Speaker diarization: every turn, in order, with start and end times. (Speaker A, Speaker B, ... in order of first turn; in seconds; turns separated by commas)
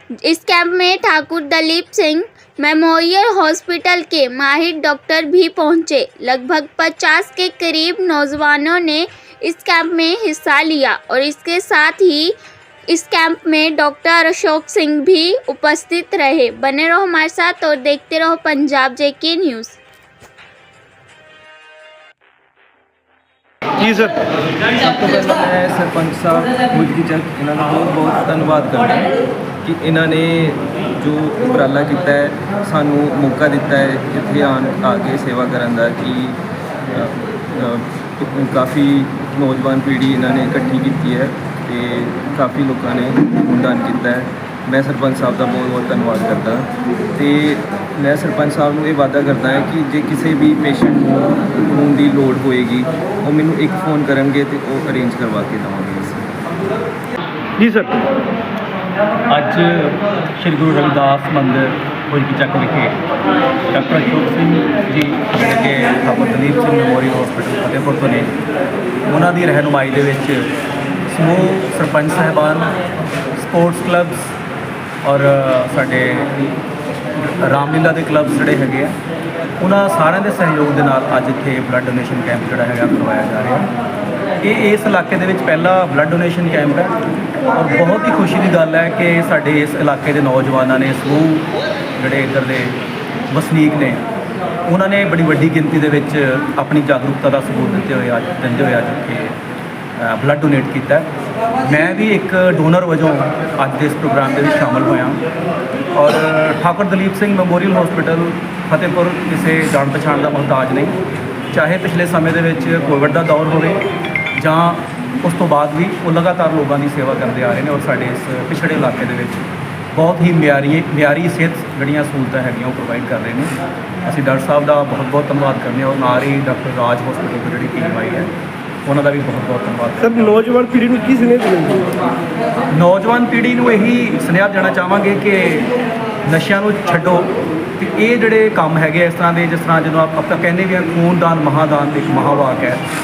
Speaker A: 0.2-12.4, Speaker A: 12.9-19.8, Speaker B: 23.8-24.1, Speaker C: 24.7-36.4, Speaker C: 36.9-56.3, Speaker D: 57.6-58.1, Speaker D: 59.3-63.0, Speaker D: 63.7-68.4, Speaker D: 69.1-70.5, Speaker D: 71.1-72.7, Speaker D: 73.3-74.3, Speaker D: 75.0-76.5, Speaker D: 77.2-79.0, Speaker D: 79.6-83.7, Speaker D: 84.4-87.0, Speaker D: 87.5-94.0, Speaker D: 94.7-99.4, Speaker D: 100.0-101.1, Speaker D: 101.6-105.2, Speaker D: 105.9-111.0, Speaker D: 111.5-113.8, Speaker D: 114.4-123.5, Speaker D: 124.0-128.3, Speaker D: 128.8-130.6, Speaker B: 130.2-132.0, Speaker D: 132.7-135.7, Speaker D: 136.2-142.8